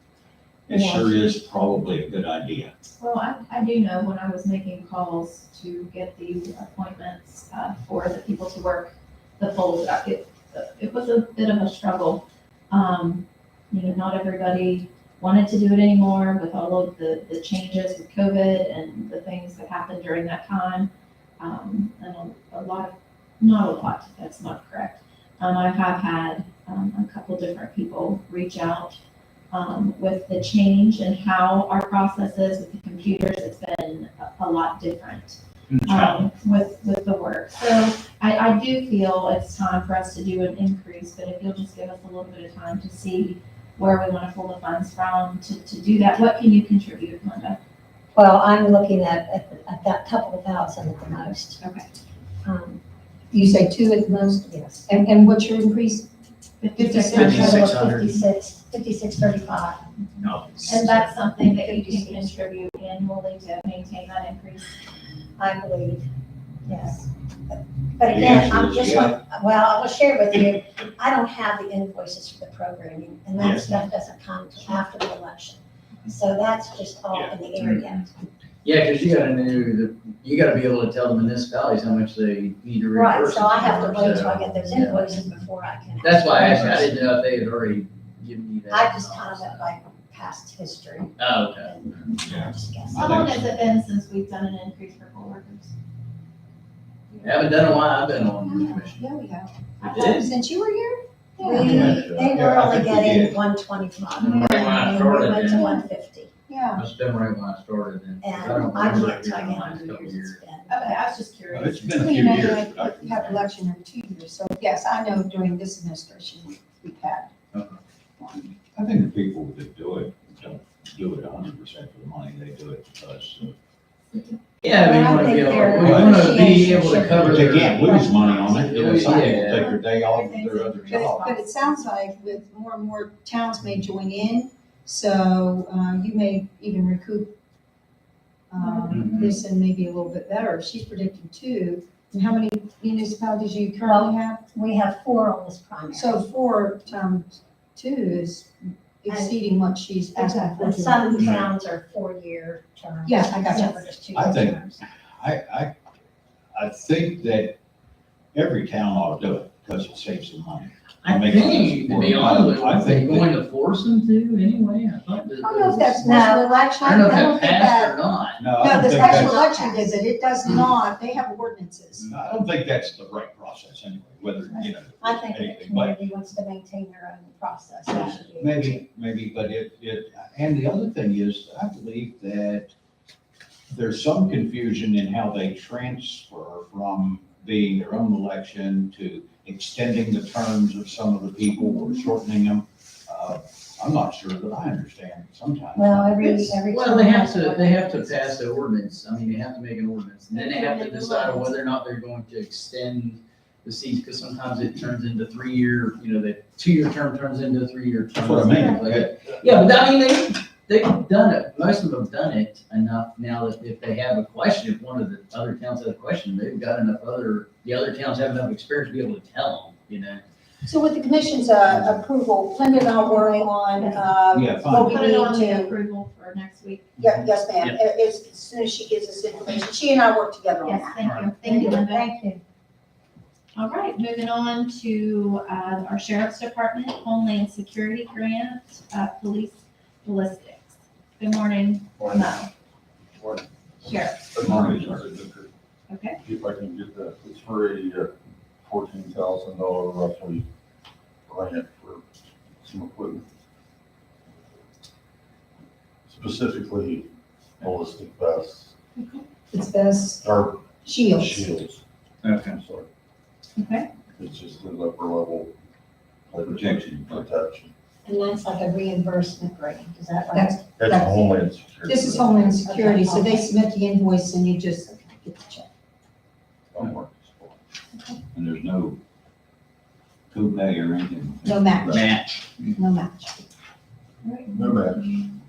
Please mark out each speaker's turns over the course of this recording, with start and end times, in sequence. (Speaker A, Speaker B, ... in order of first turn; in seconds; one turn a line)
Speaker A: 0.7-2.7
Speaker B: 0.7-1.2
Speaker C: 3.0-29.0
Speaker C: 29.5-47.6
Speaker A: 35.7-36.2
Speaker B: 48.1-51.6
Speaker C: 51.6-51.9
Speaker B: 52.4-52.8
Speaker D: 53.3-53.8
Speaker B: 53.6-54.9
Speaker D: 54.9-56.1
Speaker C: 56.6-57.5
Speaker D: 56.8-57.8
Speaker E: 57.1-58.2
Speaker B: 57.2-59.9
Speaker E: 60.2-61.1
Speaker C: 60.6-64.8
Speaker D: 61.5-62.3
Speaker B: 65.4-66.1
Speaker B: 66.7-78.1
Speaker A: 68.1-69.2
Speaker A: 73.4-73.9
Speaker E: 78.6-85.1
Speaker B: 82.9-86.9
Speaker E: 86.0-89.7
Speaker B: 88.7-93.2
Speaker E: 91.2-91.8
Speaker A: 92.2-93.5
Speaker C: 92.9-95.7
Speaker E: 97.2-99.0
Speaker D: 98.5-102.0
Speaker C: 99.8-100.2
Speaker E: 99.9-100.3
Speaker C: 101.4-101.8
Speaker B: 101.4-106.3
Speaker A: 101.6-103.4
Speaker F: 101.9-102.3
Speaker E: 104.2-105.8
Speaker D: 104.2-105.0
Speaker D: 105.5-105.8
Speaker D: 106.5-106.8
Speaker E: 106.7-110.4
Speaker B: 108.2-111.0
Speaker C: 110.7-112.5
Speaker A: 111.5-113.4
Speaker D: 112.0-117.3
Speaker E: 117.5-117.8
Speaker D: 118.2-118.5
Speaker A: 118.8-123.5
Speaker E: 124.6-129.7
Speaker B: 124.7-128.8
Speaker A: 125.8-126.3
Speaker A: 127.0-131.3
Speaker D: 129.1-137.3
Speaker C: 130.3-131.4
Speaker D: 138.5-144.4
Speaker E: 138.9-139.3
Speaker B: 143.9-146.2
Speaker D: 145.9-151.2
Speaker B: 149.1-149.4
Speaker B: 150.2-154.8
Speaker A: 151.2-151.5
Speaker D: 153.1-153.9
Speaker A: 154.1-155.8
Speaker A: 156.6-157.6
Speaker A: 158.3-163.3
Speaker E: 161.0-166.2
Speaker D: 165.4-168.0
Speaker B: 166.0-167.1
Speaker E: 166.8-168.4
Speaker A: 168.4-169.4
Speaker D: 168.6-172.1
Speaker B: 168.8-169.9
Speaker A: 172.0-176.0
Speaker B: 174.6-178.8
Speaker A: 177.9-182.7
Speaker A: 183.7-196.2
Speaker B: 195.7-198.4
Speaker E: 196.2-220.2
Speaker C: 200.3-201.5
Speaker A: 208.2-209.1
Speaker D: 220.7-225.7
Speaker C: 223.7-224.0
Speaker A: 224.3-225.0
Speaker C: 224.9-227.0
Speaker D: 227.0-232.2
Speaker C: 230.6-232.1
Speaker E: 231.0-231.4
Speaker B: 231.7-232.1
Speaker C: 233.6-242.5
Speaker F: 242.0-242.4
Speaker F: 243.2-245.5
Speaker C: 243.8-244.3
Speaker A: 244.4-245.2
Speaker C: 245.9-246.2
Speaker F: 246.2-250.5
Speaker F: 251.3-252.1
Speaker F: 252.6-253.3
Speaker F: 256.1-258.7
Speaker C: 259.0-259.2
Speaker D: 259.5-260.2
Speaker F: 260.2-261.8
Speaker D: 260.8-261.5
Speaker E: 262.2-262.6
Speaker F: 262.5-262.9
Speaker C: 263.6-263.9
Speaker F: 264.1-265.6
Speaker F: 266.3-267.7
Speaker A: 266.5-267.3
Speaker B: 268.1-270.6
Speaker D: 270.3-271.1
Speaker F: 270.8-272.7
Speaker D: 271.9-275.7
Speaker B: 272.7-273.5
Speaker F: 276.7-277.6
Speaker A: 278.3-279.0
Speaker A: 280.3-281.6
Speaker D: 281.4-282.1
Speaker E: 281.9-282.7
Speaker D: 282.7-283.4
Speaker C: 284.2-285.1
Speaker F: 284.5-285.2